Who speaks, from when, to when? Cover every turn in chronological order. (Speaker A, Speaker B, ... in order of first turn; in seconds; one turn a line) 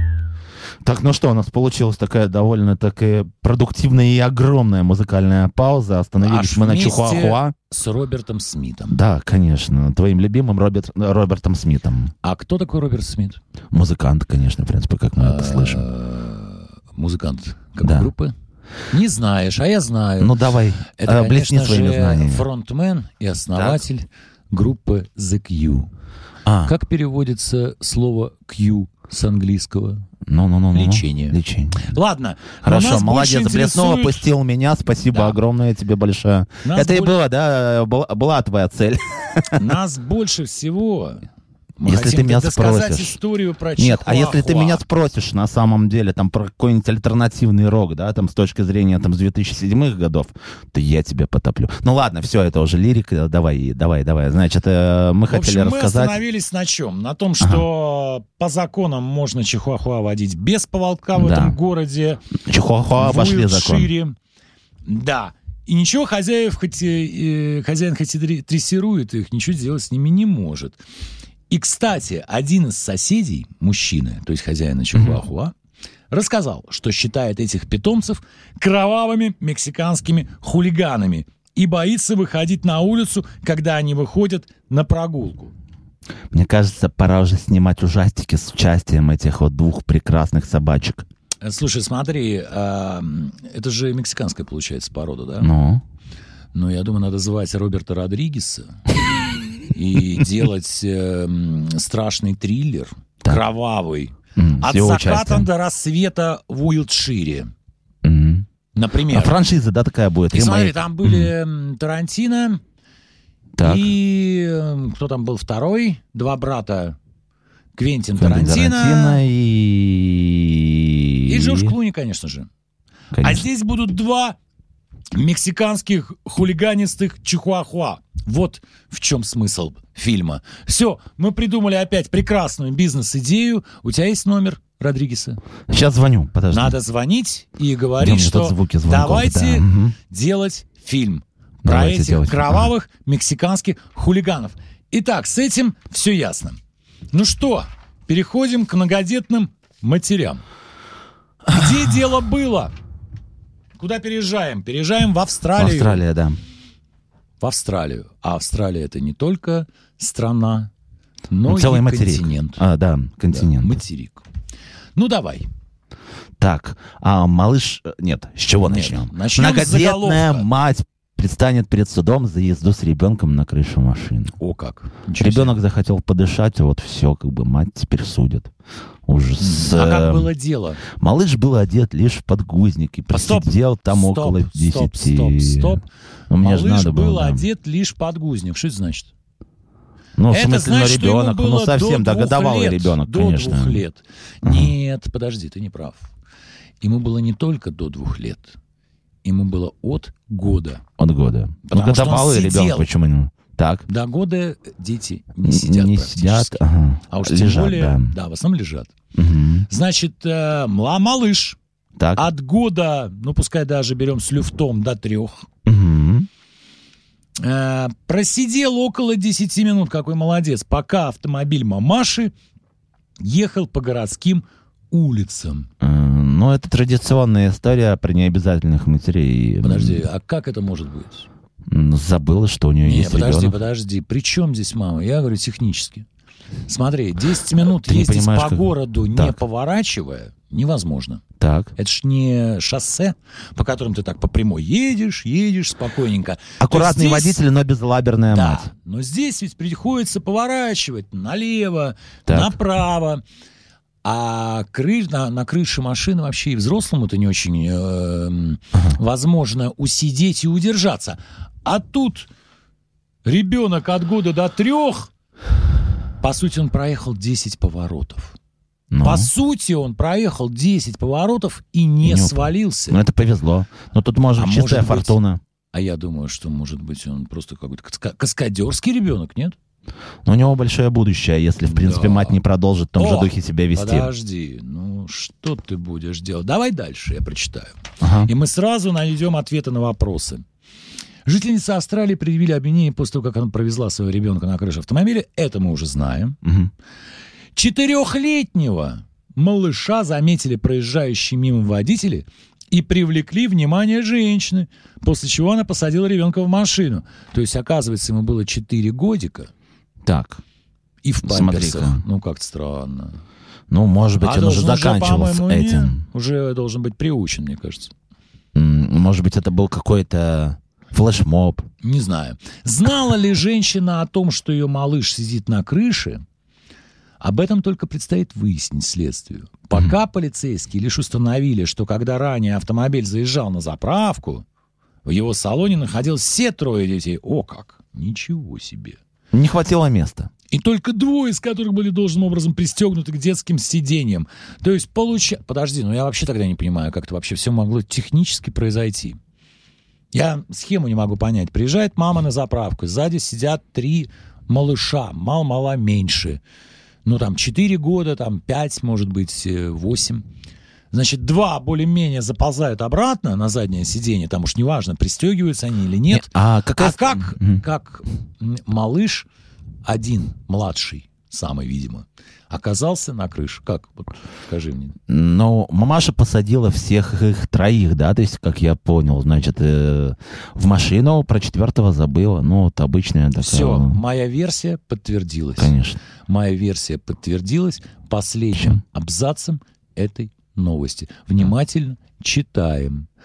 Speaker A: 0.8-7.5
Speaker B: 6.2-9.0
Speaker A: 8.9-12.1
Speaker B: 12.2-13.4
Speaker A: 13.7-15.8
Speaker B: 15.2-18.3
Speaker A: 17.8-18.1
Speaker B: 18.9-20.4
Speaker A: 20.2-22.4
Speaker B: 20.9-25.9
Speaker A: 23.5-23.8
Speaker A: 26.4-26.7
Speaker B: 26.6-30.1
Speaker A: 30.3-31.8
Speaker B: 30.7-34.2
Speaker A: 32.6-39.6
Speaker B: 35.1-35.4
Speaker B: 36.6-37.2
Speaker B: 39.5-41.3
Speaker B: 41.8-44.8
Speaker A: 41.8-43.2
Speaker A: 43.8-56.2
Speaker B: 55.3-62.2
Speaker A: 57.4-57.7
Speaker A: 61.1-61.6
Speaker A: 62.5-63.9
Speaker B: 63.0-64.2
Speaker B: 64.8-70.8
Speaker B: 71.5-75.5
Speaker B: 76.1-85.5
Speaker A: 86.3-91.0
Speaker B: 91.4-95.5
Speaker A: 95.4-95.8
Speaker B: 96.5-98.8
Speaker B: 99.7-107.5
Speaker A: 104.3-105.5
Speaker A: 108.0-108.5
Speaker B: 108.7-109.4
Speaker A: 109.1-111.3
Speaker B: 110.3-112.6
Speaker A: 113.6-113.9
Speaker B: 113.6-117.0
Speaker B: 117.7-119.2
Speaker A: 118.2-121.7
Speaker B: 121.3-122.5
Speaker A: 123.1-123.4
Speaker B: 123.2-124.4
Speaker B: 125.1-135.4
Speaker A: 135.7-136.8
Speaker B: 136.5-146.6
Speaker A: 138.0-139.9
Speaker A: 141.6-142.7
Speaker B: 147.1-150.4
Speaker B: 151.5-152.7
Speaker B: 153.8-156.0
Speaker A: 155.6-156.4
Speaker B: 157.4-160.7
Speaker B: 161.3-162.6
Speaker A: 161.5-163.8
Speaker B: 163.3-164.2
Speaker B: 164.9-165.5
Speaker A: 166.4-174.3
Speaker B: 168.6-170.5
Speaker B: 174.4-175.6
Speaker A: 175.2-178.5
Speaker A: 179.1-180.3
Speaker B: 179.4-180.8
Speaker A: 181.0-187.4
Speaker B: 183.1-185.9
Speaker B: 186.4-189.1
Speaker A: 190.2-193.8
Speaker B: 190.3-196.1
Speaker A: 194.4-194.7
Speaker B: 196.8-198.6
Speaker B: 199.2-200.8
Speaker A: 201.0-203.8
Speaker B: 201.6-202.9
Speaker B: 203.9-208.9
Speaker A: 205.4-208.1
Speaker A: 209.1-209.7
Speaker B: 209.7-211.6
Speaker A: 212.0-212.2
Speaker B: 212.2-215.5
Speaker A: 215.7-216.3
Speaker B: 217.4-222.3
Speaker B: 223.2-225.7
Speaker A: 225.8-230.0
Speaker B: 229.6-231.3
Speaker A: 231.7-233.6
Speaker B: 232.8-236.1
Speaker B: 236.7-241.2
Speaker A: 237.5-239.4
Speaker A: 241.4-241.7
Speaker B: 241.8-247.4
Speaker A: 246.6-248.7
Speaker B: 248.3-253.2
Speaker A: 252.3-252.5
Speaker B: 254.0-262.3
Speaker B: 263.2-265.1
Speaker B: 266.2-268.3
Speaker A: 268.9-269.3
Speaker B: 269.0-273.0
Speaker A: 272.0-275.4
Speaker B: 274.4-275.1
Speaker B: 275.7-279.6
Speaker A: 280.2-284.1
Speaker B: 281.7-282.4
Speaker B: 283.0-290.4
Speaker A: 288.0-288.3
Speaker B: 291.2-296.4
Speaker A: 296.4-296.7
Speaker B: 297.5-309.5
Speaker A: 310.0-310.4
Speaker B: 311.0-313.2
Speaker A: 311.2-312.0
Speaker A: 313.7-316.0
Speaker B: 314.2-317.9
Speaker A: 318.5-321.6
Speaker B: 321.8-326.2
Speaker B: 327.2-334.4
Speaker B: 335.0-339.0
Speaker A: 339.3-340.3
Speaker B: 340.5-349.2
Speaker B: 350.1-356.4
Speaker B: 357.0-360.2
Speaker B: 360.9-369.3
Speaker A: 366.1-367.6
Speaker B: 369.8-374.9
Speaker A: 375.1-384.0
Speaker B: 383.4-393.1
Speaker A: 385.6-386.0
Speaker A: 388.5-388.8